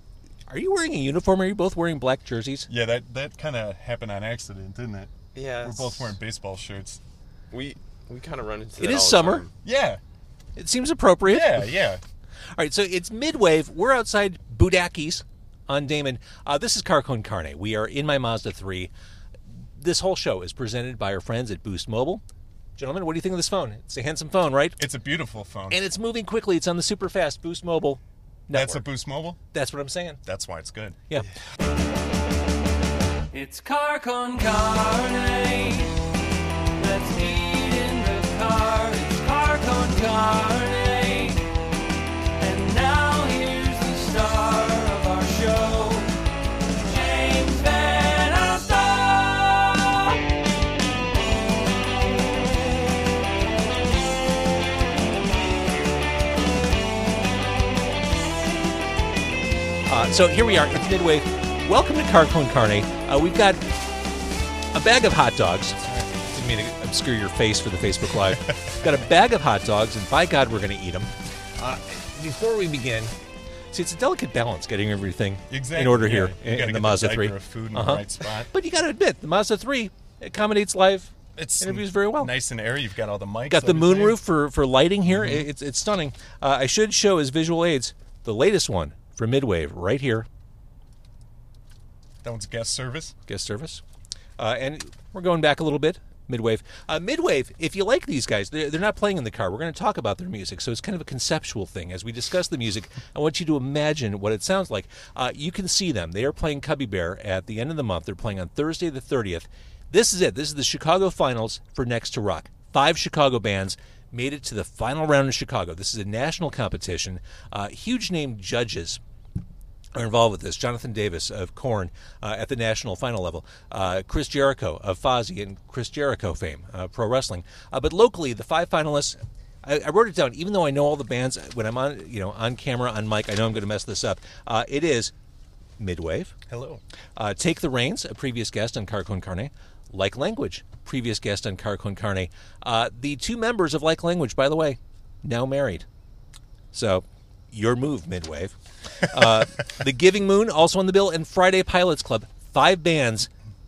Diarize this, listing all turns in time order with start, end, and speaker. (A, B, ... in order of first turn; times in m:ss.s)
0:00.5-0:02.7 A
0:02.7-0:07.0 B
0:05.3-0:06.1 C
0:07.5-0:09.5 C
0:08.8-0:09.4 A
0:09.6-0:10.0 B
0:10.6-0:11.7 A
0:11.2-0:12.0 B
0:12.5-0:18.9 A
0:19.8-0:22.2 A
0:22.8-0:24.8 A
0:24.8-0:25.8 B
0:25.7-0:28.8 A
0:28.5-0:29.4 B
0:29.5-0:30.2 A
0:30.2-0:31.1 B
0:33.3-0:36.1 D
0:36.8-0:41.5 D
0:42.4-0:50.2 D
0:59.9-1:03.6 A
1:04.7-1:05.8 A
1:05.8-1:06.3 B
1:06.3-1:13.1 A
1:13.7-1:22.3 A
1:15.5-1:18.5 B
1:21.4-1:24.2 B
1:23.5-1:30.3 A
1:25.1-1:25.5 B
1:32.2-1:33.1 B
1:33.3-1:33.8 A
1:34.4-1:59.0 A
1:59.9-2:15.1 A
2:15.8-2:16.3 A
2:16.5-2:16.8 B
2:17.2-2:25.8 A
2:26.7-2:33.3 A